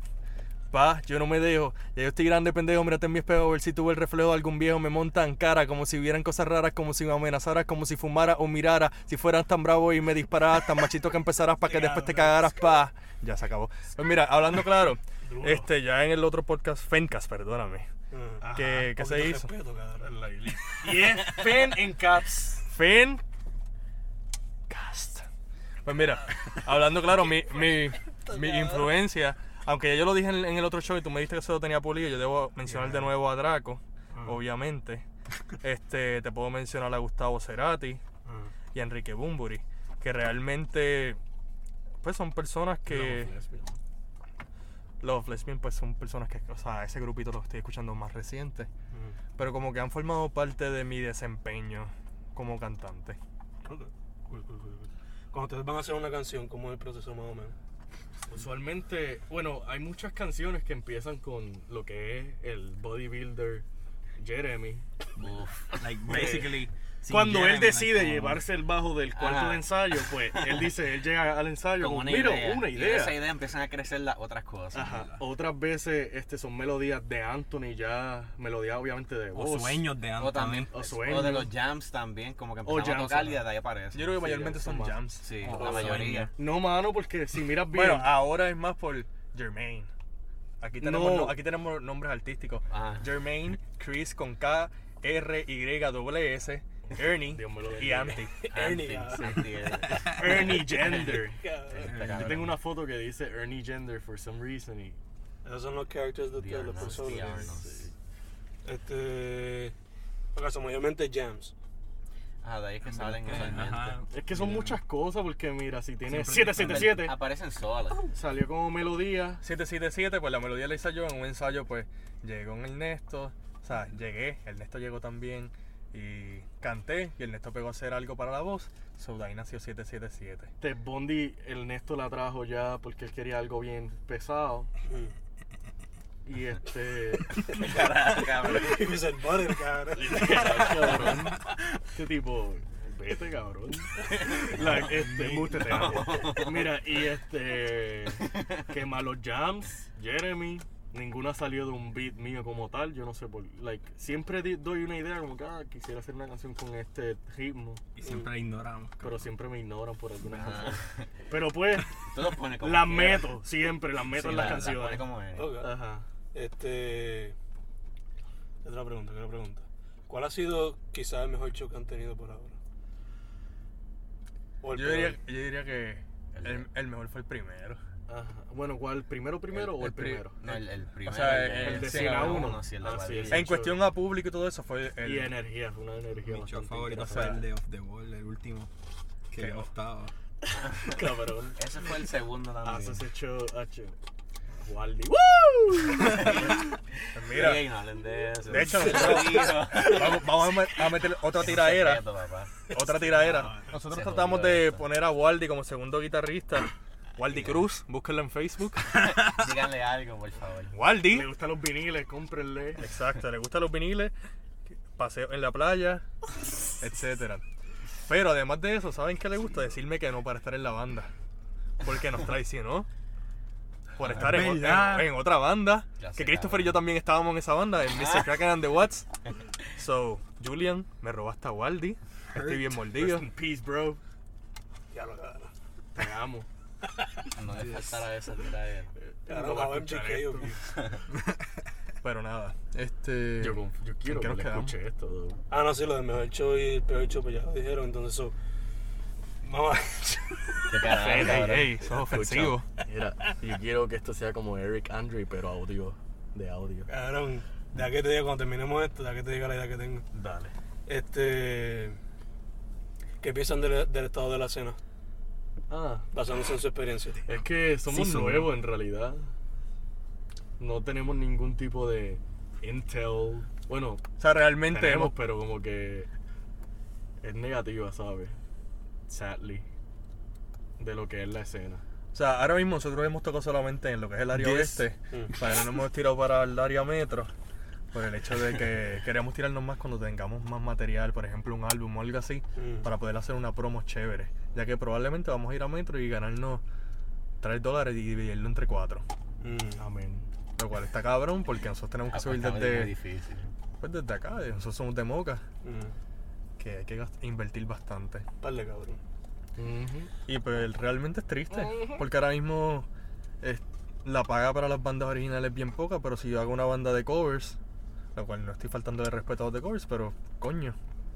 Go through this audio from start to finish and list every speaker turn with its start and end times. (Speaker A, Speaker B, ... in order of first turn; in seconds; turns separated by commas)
Speaker A: 0.7-17.9, Speaker B: 11.6-12.7, Speaker C: 15.3-15.7, Speaker B: 18.1-20.2, Speaker A: 18.5-19.5, Speaker C: 20.0-22.6, Speaker A: 22.6-23.2, Speaker A: 24.7-25.3, Speaker A: 25.8-35.0, Speaker B: 28.2-28.9, Speaker A: 35.6-38.0, Speaker B: 38.2-38.5, Speaker A: 38.7-41.2, Speaker A: 42.0-43.3, Speaker C: 42.9-43.8, Speaker A: 45.0-48.7, Speaker B: 48.9-49.2, Speaker A: 49.4-53.2, Speaker B: 53.6-57.5, Speaker C: 58.3-63.6, Speaker C: 64.2-64.8, Speaker D: 65.2-65.8, Speaker E: 65.2-68.4, Speaker C: 66.1-73.2, Speaker D: 69.1-69.7, Speaker D: 71.8-75.0, Speaker C: 74.7-79.8, Speaker E: 79.3-80.7, Speaker D: 80.2-84.3, Speaker C: 80.7-81.5, Speaker C: 82.6-83.4, Speaker A: 83.9-85.3, Speaker C: 84.2-85.0, Speaker D: 85.2-86.3, Speaker E: 85.4-86.3, Speaker C: 85.5-88.1, Speaker A: 87.7-89.9, Speaker A: 90.6-98.5, Speaker C: 90.8-91.4, Speaker D: 92.7-93.1, Speaker C: 97.3-98.2, Speaker B: 98.4-99.9, Speaker D: 98.5-102.5, Speaker C: 100.1-105.0, Speaker B: 101.4-101.9, Speaker E: 101.8-102.5, Speaker B: 105.4-107.5, Speaker D: 106.3-107.9, Speaker C: 106.8-107.9, Speaker B: 108.6-109.7, Speaker B: 110.3-111.5, Speaker D: 112.4-114.0, Speaker E: 112.8-114.8, Speaker C: 114.1-117.1, Speaker E: 116.1-117.0, Speaker D: 116.5-118.0, Speaker C: 118.0-119.4, Speaker A: 119.4-130.5, Speaker C: 130.6-134.7, Speaker B: 134.8-135.1, Speaker C: 136.2-137.5, Speaker B: 137.4-141.2, Speaker D: 137.5-139.0, Speaker C: 139.9-157.8, Speaker D: 144.2-144.9, Speaker D: 145.6-146.7, Speaker E: 157.9-159.2, Speaker B: 158.0-158.3, Speaker C: 159.0-162.1, Speaker D: 160.3-161.1, Speaker D: 162.0-163.3, Speaker C: 162.6-166.1, Speaker D: 164.1-165.6, Speaker B: 165.3-165.7, Speaker B: 166.3-167.3, Speaker B: 168.6-172.5, Speaker B: 174.6-175.2, Speaker A: 174.7-177.8, Speaker D: 176.3-176.7, Speaker C: 178.1-180.4, Speaker A: 179.5-182.6, Speaker D: 180.4-183.5, Speaker C: 181.5-183.8, Speaker A: 183.3-185.3, Speaker C: 185.0-187.4, Speaker E: 186.2-188.7, Speaker E: 189.3-190.1, Speaker D: 190.5-191.0, Speaker C: 190.8-191.6, Speaker D: 191.5-193.0, Speaker C: 192.6-194.0, Speaker C: 194.6-196.5, Speaker D: 196.0-196.6, Speaker A: 197.1-197.7, Speaker D: 197.1-200.2, Speaker A: 198.4-202.0, Speaker D: 201.4-202.6, Speaker A: 202.7-209.3, Speaker C: 202.9-203.7, Speaker D: 203.8-204.8, Speaker D: 207.3-207.6, Speaker D: 209.0-210.8, Speaker A: 210.7-211.3, Speaker C: 211.0-212.8, Speaker A: 212.8-214.1, Speaker A: 214.9-216.1, Speaker A: 216.8-217.4, Speaker A: 218.1-221.1, Speaker A: 221.8-222.9, Speaker A: 223.9-229.1, Speaker E: 224.1-225.1, Speaker D: 226.0-226.8, Speaker D: 227.9-228.3, Speaker A: 229.7-233.3, Speaker E: 232.3-232.8, Speaker C: 232.9-234.0, Speaker B: 234.9-235.5, Speaker C: 235.9-236.5, Speaker D: 237.3-238.9, Speaker C: 239.0-240.6, Speaker B: 239.3-240.5, Speaker A: 242.0-244.7, Speaker C: 243.4-245.4, Speaker B: 245.5-248.3, Speaker B: 249.4-250.7, Speaker D: 250.7-251.7, Speaker C: 250.9-256.9, Speaker A: 251.2-252.7, Speaker B: 256.9-260.0, Speaker C: 260.1-260.5, Speaker B: 260.9-262.0, Speaker B: 263.2-264.8, Speaker C: 265.7-266.1, Speaker B: 266.1-267.2, Speaker C: 267.3-269.3, Speaker E: 267.9-268.5, Speaker C: 270.6-274.1, Speaker A: 274.2-275.1, Speaker C: 274.6-276.1, Speaker C: 277.2-278.4, Speaker C: 279.1-279.6, Speaker C: 280.8-281.8, Speaker A: 282.1-287.3, Speaker E: 284.3-284.8, Speaker A: 287.9-296.6, Speaker B: 292.6-292.9, Speaker A: 297.4-299.0, Speaker B: 299.4-299.8, Speaker C: 299.8-300.3, Speaker A: 300.6-302.9, Speaker D: 302.1-303.5, Speaker A: 303.8-305.4, Speaker B: 305.6-305.9, Speaker A: 306.6-308.2, Speaker B: 308.4-309.0, Speaker C: 309.6-310.1, Speaker A: 310.3-312.9, Speaker C: 311.5-312.0, Speaker A: 313.4-317.6, Speaker A: 318.1-320.8